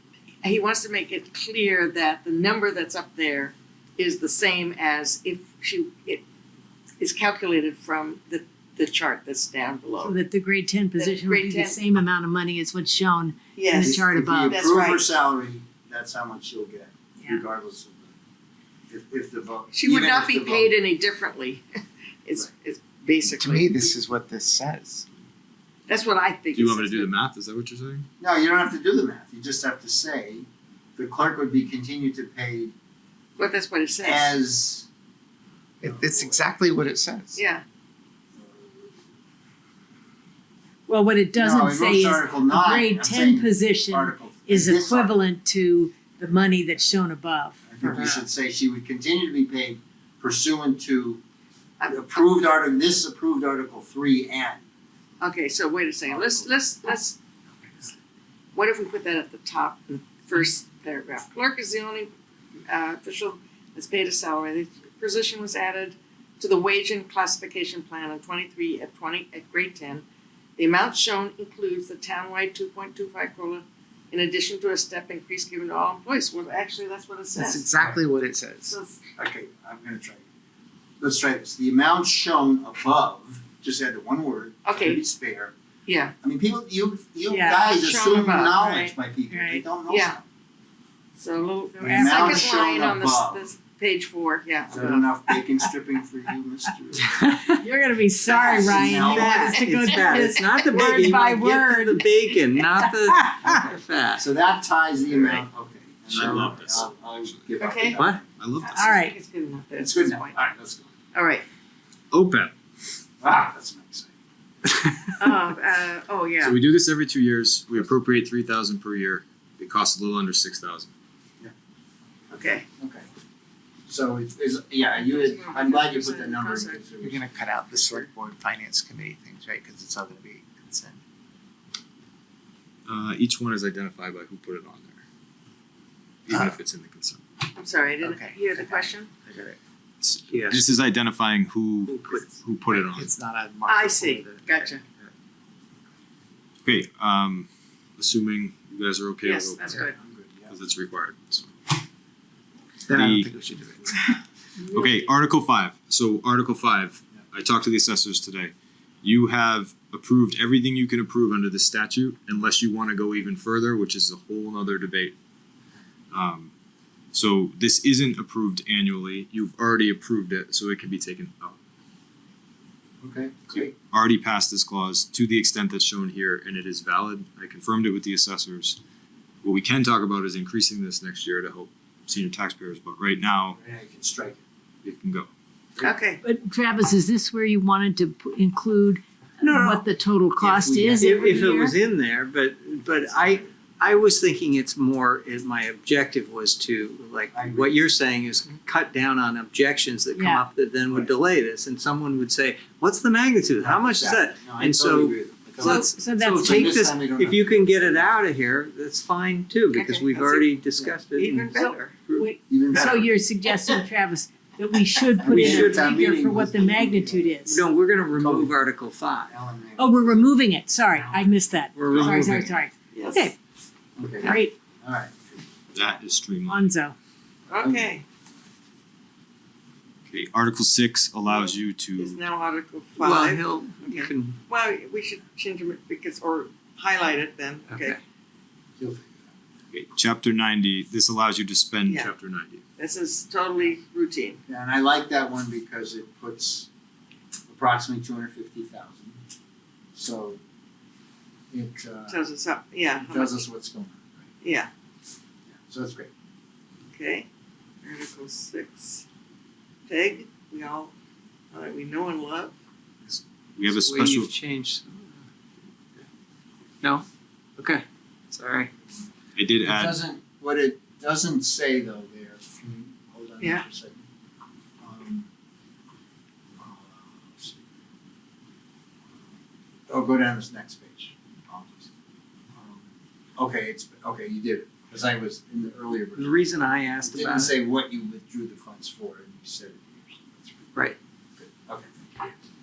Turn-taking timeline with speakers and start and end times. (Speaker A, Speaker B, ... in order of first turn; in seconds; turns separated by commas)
Speaker A: 0.4-6.2, Speaker A: 7.0-10.2, Speaker B: 10.0-14.6, Speaker A: 11.0-11.8, Speaker A: 13.6-15.1, Speaker C: 13.8-18.1, Speaker C: 18.9-20.7, Speaker A: 19.7-21.6, Speaker A: 22.2-24.0, Speaker D: 23.2-25.1, Speaker A: 25.9-27.1, Speaker E: 26.6-28.1, Speaker C: 28.2-32.7, Speaker A: 33.4-34.3, Speaker C: 34.0-34.9, Speaker D: 35.8-37.4, Speaker C: 35.8-36.5, Speaker A: 37.3-37.6, Speaker C: 38.4-38.8, Speaker B: 40.9-48.1, Speaker C: 41.4-45.2, Speaker C: 47.7-51.2, Speaker A: 51.8-52.2, Speaker C: 51.9-54.6, Speaker A: 55.2-57.2, Speaker C: 56.1-56.5, Speaker A: 58.5-62.1, Speaker A: 62.7-70.0, Speaker A: 70.6-77.7, Speaker D: 77.4-78.7, Speaker C: 77.8-78.0, Speaker A: 78.7-79.0, Speaker C: 79.2-80.2, Speaker C: 81.0-85.5, Speaker A: 84.7-85.0, Speaker A: 85.9-86.1, Speaker C: 86.2-90.2, Speaker B: 87.3-87.7, Speaker A: 87.7-88.6, Speaker B: 88.6-89.6, Speaker A: 89.9-90.2, Speaker A: 91.2-95.1, Speaker B: 91.8-92.5, Speaker C: 91.8-93.5, Speaker C: 94.7-97.4, Speaker B: 97.0-103.5, Speaker A: 98.3-101.2, Speaker C: 98.4-100.2, Speaker F: 99.8-104.2, Speaker C: 103.4-108.2, Speaker E: 106.1-107.5, Speaker A: 107.6-108.0, Speaker F: 108.0-108.2, Speaker E: 108.4-108.9, Speaker A: 108.6-110.4, Speaker B: 108.8-109.2, Speaker C: 109.8-110.9, Speaker A: 111.1-111.5, Speaker E: 112.1-112.5, Speaker C: 113.2-114.1, Speaker A: 115.2-116.6, Speaker E: 116.4-120.9, Speaker A: 122.3-122.6, Speaker C: 122.8-123.1, Speaker C: 123.9-128.1, Speaker A: 125.0-126.8, Speaker D: 127.0-131.0, Speaker E: 132.9-135.0, Speaker E: 136.3-137.2, Speaker A: 137.6-139.1, Speaker D: 138.0-139.6, Speaker E: 140.0-143.1, Speaker F: 140.3-140.6, Speaker D: 142.0-145.1, Speaker A: 143.7-144.8, Speaker E: 146.7-149.9, Speaker A: 149.2-149.9, Speaker C: 149.7-150.5, Speaker E: 150.5-151.7, Speaker D: 152.9-154.2, Speaker E: 152.9-153.3, Speaker E: 154.7-158.5, Speaker E: 159.0-165.2, Speaker E: 166.1-166.5, Speaker E: 167.1-171.6, Speaker C: 173.0-173.7, Speaker E: 173.5-178.8, Speaker E: 179.4-183.6, Speaker C: 183.6-184.4, Speaker E: 184.8-185.3, Speaker A: 185.8-186.2, Speaker B: 186.2-191.7, Speaker F: 189.4-189.9, Speaker C: 190.4-191.5, Speaker F: 191.0-212.3, Speaker C: 192.9-193.5, Speaker C: 197.3-197.8, Speaker B: 200.2-200.4, Speaker C: 203.6-208.1, Speaker B: 205.9-206.8, Speaker A: 209.7-211.9, Speaker B: 211.6-217.6, Speaker C: 212.5-213.2, Speaker C: 215.2-217.4, Speaker F: 215.3-215.8, Speaker F: 217.5-219.3, Speaker C: 218.2-218.6, Speaker C: 219.2-220.2, Speaker B: 219.8-223.4, Speaker C: 220.9-222.5, Speaker F: 221.8-222.6, Speaker A: 222.9-223.3, Speaker C: 224.0-225.5, Speaker B: 224.2-224.6, Speaker E: 225.8-226.7, Speaker B: 226.5-227.0, Speaker A: 227.5-228.0, Speaker C: 227.6-227.9, Speaker E: 230.1-232.2, Speaker A: 231.3-238.0, Speaker F: 233.0-234.4, Speaker F: 237.7-238.0, Speaker C: 238.8-239.3, Speaker E: 239.7-242.6, Speaker A: 241.9-242.1, Speaker A: 242.8-244.4, Speaker C: 244.5-246.7, Speaker C: 247.5-249.2, Speaker C: 249.9-250.4, Speaker C: 251.5-252.2, Speaker A: 252.1-253.4, Speaker C: 253.0-254.3, Speaker A: 254.4-254.7, Speaker C: 255.5-256.1, Speaker A: 256.9-257.3, Speaker A: 257.8-259.1, Speaker A: 259.9-260.9, Speaker A: 261.5-262.6, Speaker E: 263.1-264.3, Speaker F: 263.7-265.2, Speaker F: 267.6-268.7, Speaker E: 269.4-270.0, Speaker C: 269.6-274.0, Speaker C: 274.8-275.3, Speaker C: 276.6-277.6, Speaker C: 279.9-281.9, Speaker C: 282.6-292.3, Speaker F: 286.2-287.6